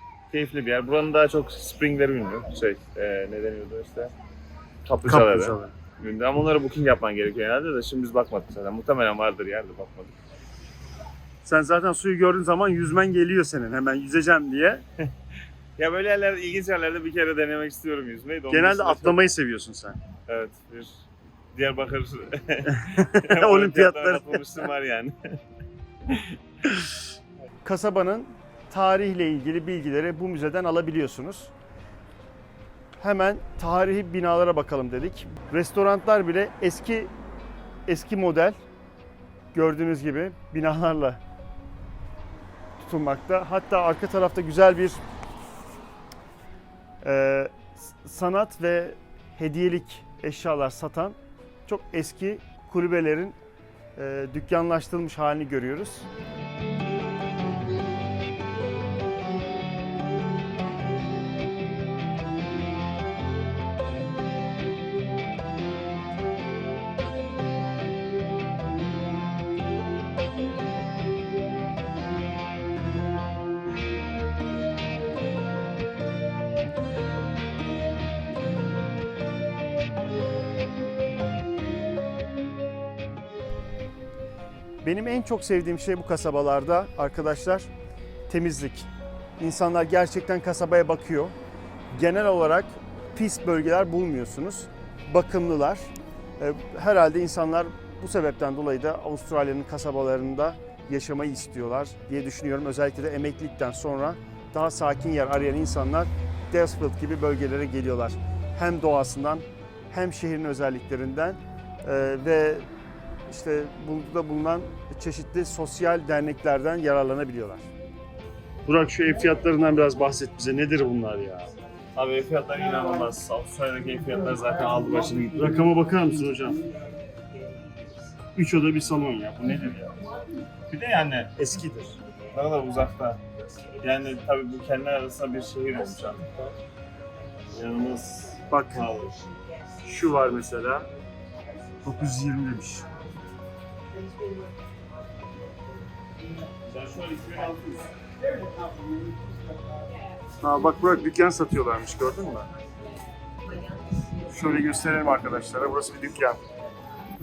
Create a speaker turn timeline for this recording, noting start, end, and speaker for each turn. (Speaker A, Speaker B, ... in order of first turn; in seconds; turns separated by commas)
Speaker A: 0.3-4.1, Speaker A: 4.8-10.2, Speaker B: 5.1-5.7, Speaker B: 11.4-14.8, Speaker A: 15.8-19.3, Speaker B: 18.5-20.0, Speaker A: 20.3-21.0, Speaker A: 21.5-25.4, Speaker B: 22.9-24.5, Speaker A: 26.1-26.8, Speaker B: 27.6-31.5, Speaker B: 33.0-37.1, Speaker B: 37.9-38.6, Speaker B: 39.5-41.2, Speaker B: 42.8-45.0, Speaker B: 47.0-53.4, Speaker B: 54.0-56.1, Speaker B: 84.8-87.7, Speaker B: 88.3-91.3, Speaker B: 91.9-112.7, Speaker B: 113.3-117.7, Speaker B: 118.7-121.5, Speaker A: 121.9-125.6, Speaker B: 125.3-126.6, Speaker B: 128.3-129.9, Speaker A: 130.7-131.4, Speaker B: 131.4-131.9, Speaker A: 132.3-133.2, Speaker A: 133.8-136.3, Speaker A: 137.5-139.1, Speaker B: 138.5-138.9, Speaker B: 139.8-140.9, Speaker B: 141.8-142.8, Speaker A: 146.6-147.9, Speaker B: 150.4-152.5, Speaker B: 154.3-156.4